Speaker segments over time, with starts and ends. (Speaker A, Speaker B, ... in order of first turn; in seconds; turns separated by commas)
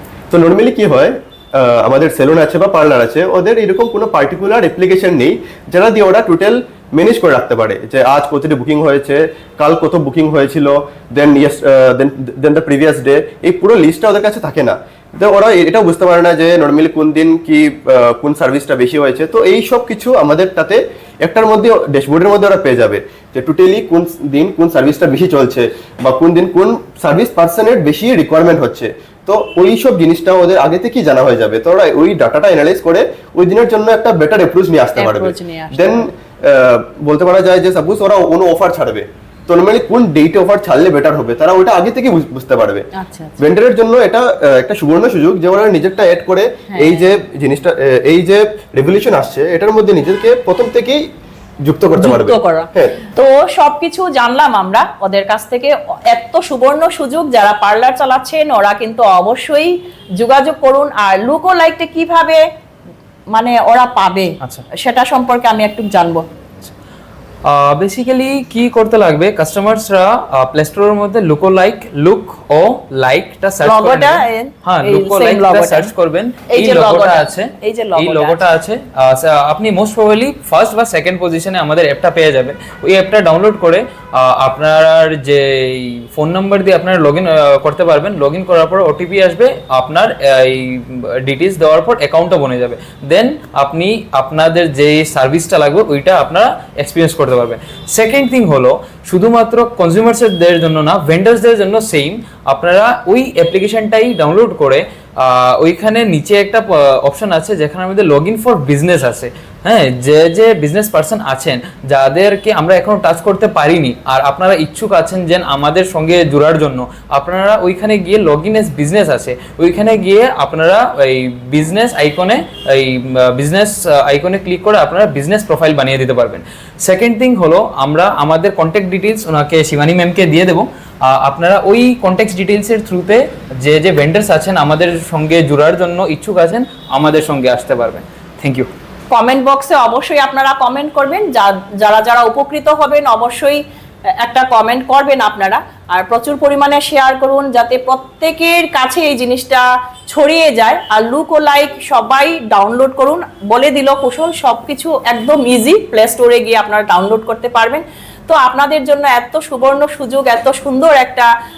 Speaker A: 0.3-42.9, Speaker B: 35.0-36.1, Speaker B: 43.0-43.4, Speaker A: 43.4-51.0, Speaker B: 46.7-47.0, Speaker A: 51.6-53.0, Speaker B: 52.0-62.4, Speaker B: 63.3-66.2, Speaker C: 67.5-138.7, Speaker B: 73.6-75.9, Speaker B: 76.5-78.4, Speaker B: 139.1-143.6, Speaker B: 144.2-161.3